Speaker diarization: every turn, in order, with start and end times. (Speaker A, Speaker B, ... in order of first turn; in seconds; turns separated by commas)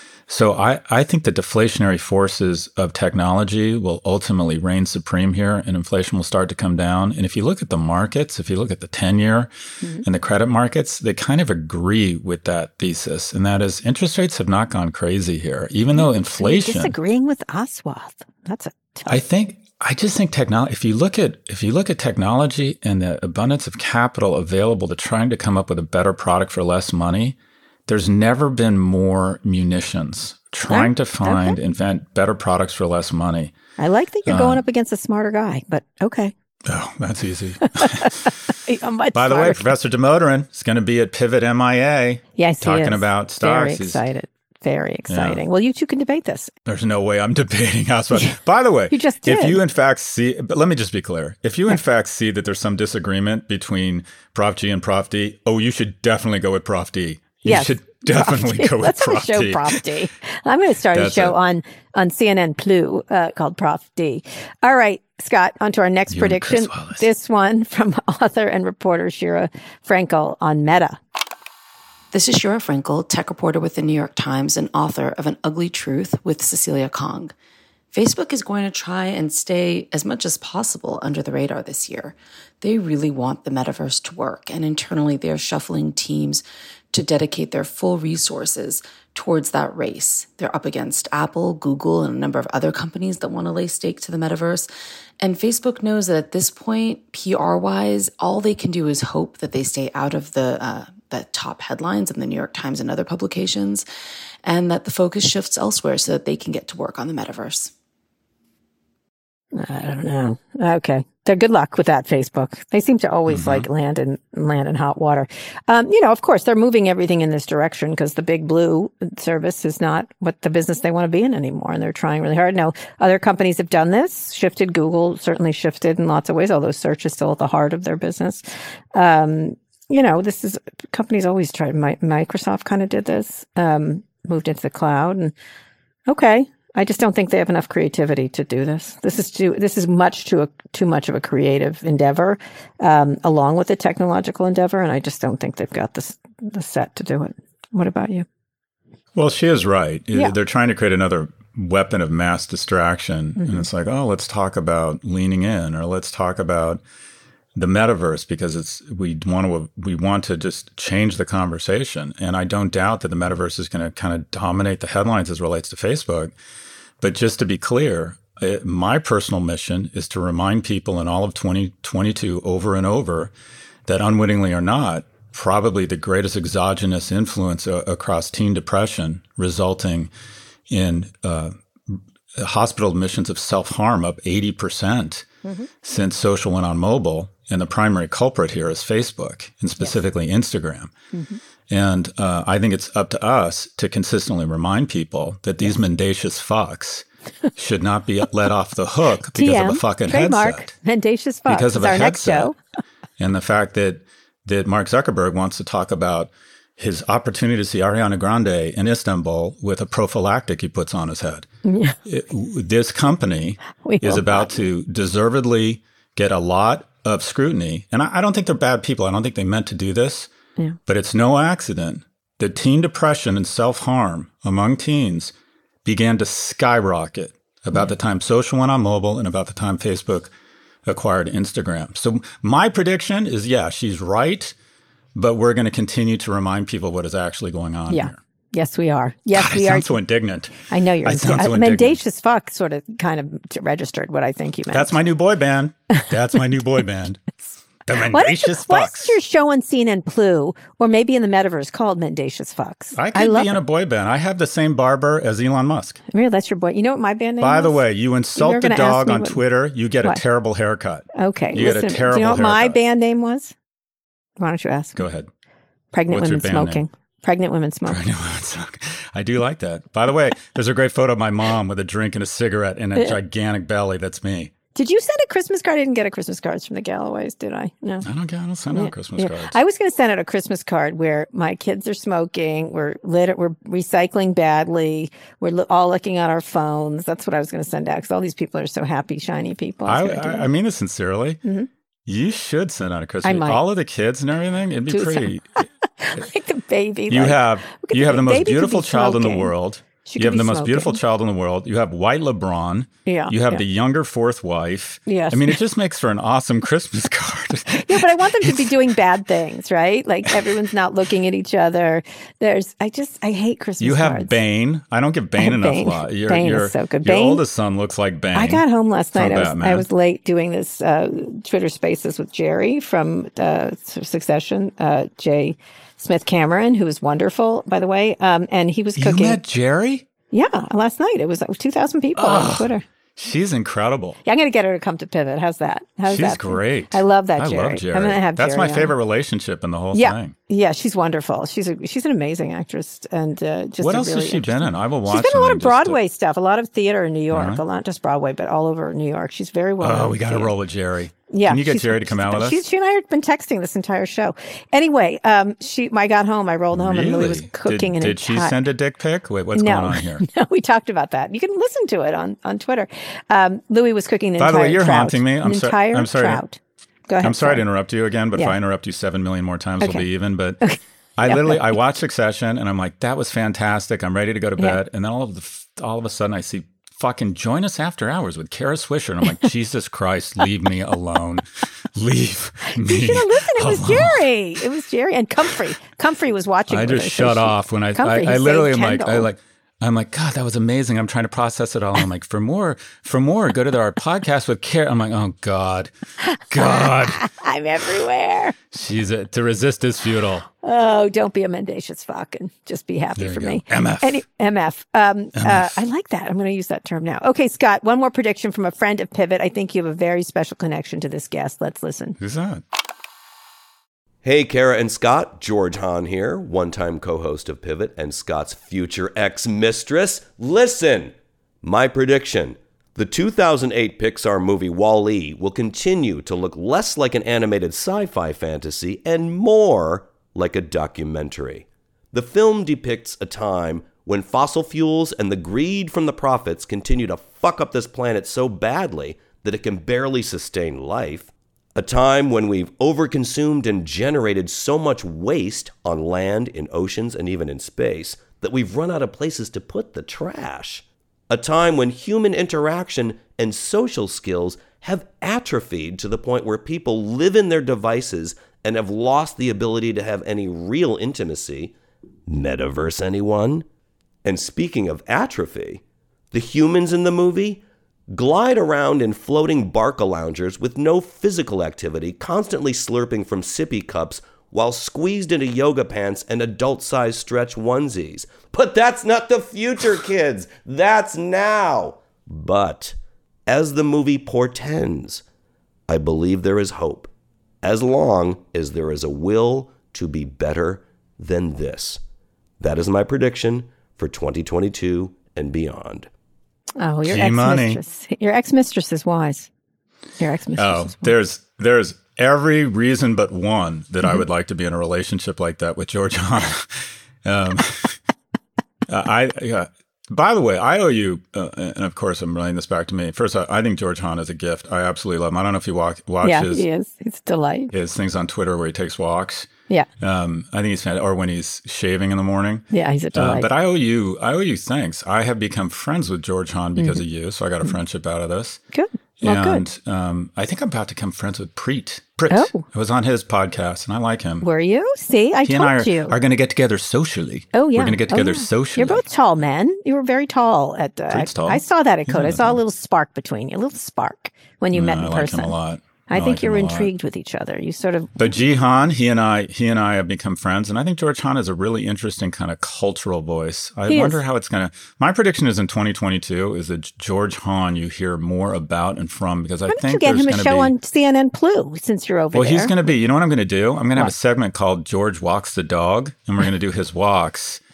Speaker A: 0.3-9.5, Speaker A: 10.0-16.9, Speaker B: 15.9-19.2, Speaker A: 19.1-33.5, Speaker B: 30.7-31.6, Speaker B: 33.8-36.3, Speaker A: 34.3-34.6, Speaker A: 36.6-38.3, Speaker B: 37.8-39.7, Speaker A: 39.1-44.0, Speaker B: 42.4-46.5, Speaker A: 45.1-45.4, Speaker A: 46.7-59.8, Speaker B: 48.9-49.6, Speaker B: 57.5-71.0, Speaker A: 60.9-61.4, Speaker A: 66.1-67.1, Speaker C: 72.1-77.3, Speaker C: 77.9-94.7, Speaker C: 95.2-103.9, Speaker C: 104.4-107.7, Speaker B: 109.5-135.3, Speaker A: 113.3-113.7, Speaker B: 136.1-148.2, Speaker A: 149.2-156.8, Speaker B: 153.4-153.7, Speaker A: 157.6-166.3, Speaker A: 167.0-173.3, Speaker A: 173.9-180.1, Speaker A: 180.7-185.3, Speaker A: 185.8-190.9, Speaker B: 191.1-191.4, Speaker A: 191.7-200.7, Speaker B: 199.3-202.6, Speaker A: 201.5-202.5, Speaker A: 203.2-211.5, Speaker B: 211.7-212.0, Speaker A: 212.1-220.3, Speaker B: 213.8-214.5, Speaker A: 220.9-225.3, Speaker A: 225.8-230.3, Speaker A: 230.9-234.6, Speaker A: 235.2-238.2, Speaker B: 237.9-240.0, Speaker A: 239.3-242.0, Speaker B: 240.7-245.0, Speaker A: 244.7-247.2, Speaker A: 247.9-249.2, Speaker B: 248.1-253.6, Speaker A: 253.0-256.0, Speaker B: 256.1-257.8, Speaker A: 257.4-262.8, Speaker B: 258.4-259.4, Speaker B: 261.1-263.5, Speaker B: 264.4-265.0, Speaker A: 265.0-265.3, Speaker B: 265.9-268.0, Speaker A: 266.1-266.8, Speaker A: 267.9-274.5, Speaker B: 274.8-278.1, Speaker A: 278.0-279.6, Speaker B: 278.7-290.5, Speaker A: 289.9-291.4, Speaker B: 291.4-291.7, Speaker A: 292.1-295.6, Speaker B: 293.2-293.6, Speaker B: 294.9-295.3, Speaker B: 296.0-299.5, Speaker A: 297.1-308.9, Speaker B: 300.1-301.0, Speaker B: 303.1-303.6, Speaker B: 305.1-305.6, Speaker B: 307.8-314.3, Speaker A: 310.3-310.6, Speaker A: 313.8-319.9, Speaker B: 315.4-317.4, Speaker B: 318.3-329.4, Speaker A: 329.0-330.1, Speaker B: 330.3-332.8, Speaker A: 332.2-334.2, Speaker B: 334.2-338.9, Speaker A: 336.1-340.4, Speaker B: 339.9-350.5, Speaker A: 343.8-346.0, Speaker A: 347.3-347.6, Speaker A: 349.8-352.6, Speaker B: 351.3-358.6, Speaker A: 356.7-360.2, Speaker B: 359.6-366.6, Speaker A: 364.4-366.4, Speaker B: 367.1-367.6, Speaker A: 367.2-370.6, Speaker B: 370.6-371.6, Speaker A: 371.2-384.3, Speaker B: 382.7-389.3, Speaker A: 386.7-397.2, Speaker B: 396.2-398.6, Speaker A: 398.7-400.5, Speaker B: 400.6-412.2, Speaker A: 403.2-404.2, Speaker A: 405.4-405.7, Speaker A: 412.2-412.6, Speaker D: 414.2-461.7, Speaker D: 462.3-463.7, Speaker D: 464.2-483.0, Speaker D: 483.5-485.2, Speaker D: 485.9-487.1, Speaker D: 487.6-492.0, Speaker D: 492.6-496.1, Speaker B: 496.8-499.5, Speaker A: 497.0-497.8, Speaker B: 500.2-501.1, Speaker A: 500.6-508.0, Speaker A: 508.9-516.6, Speaker B: 516.2-517.7, Speaker A: 517.7-519.5, Speaker A: 520.0-528.6, Speaker B: 522.7-523.5, Speaker B: 526.8-527.0, Speaker B: 528.7-529.6, Speaker A: 529.2-534.5, Speaker B: 532.3-532.7, Speaker B: 534.4-536.2, Speaker A: 535.4-539.0, Speaker B: 537.5-545.5, Speaker A: 541.1-542.6, Speaker A: 544.7-546.9, Speaker B: 546.1-548.2, Speaker A: 548.2-560.7, Speaker B: 553.9-554.2, Speaker B: 559.7-562.7, Speaker A: 562.3-567.6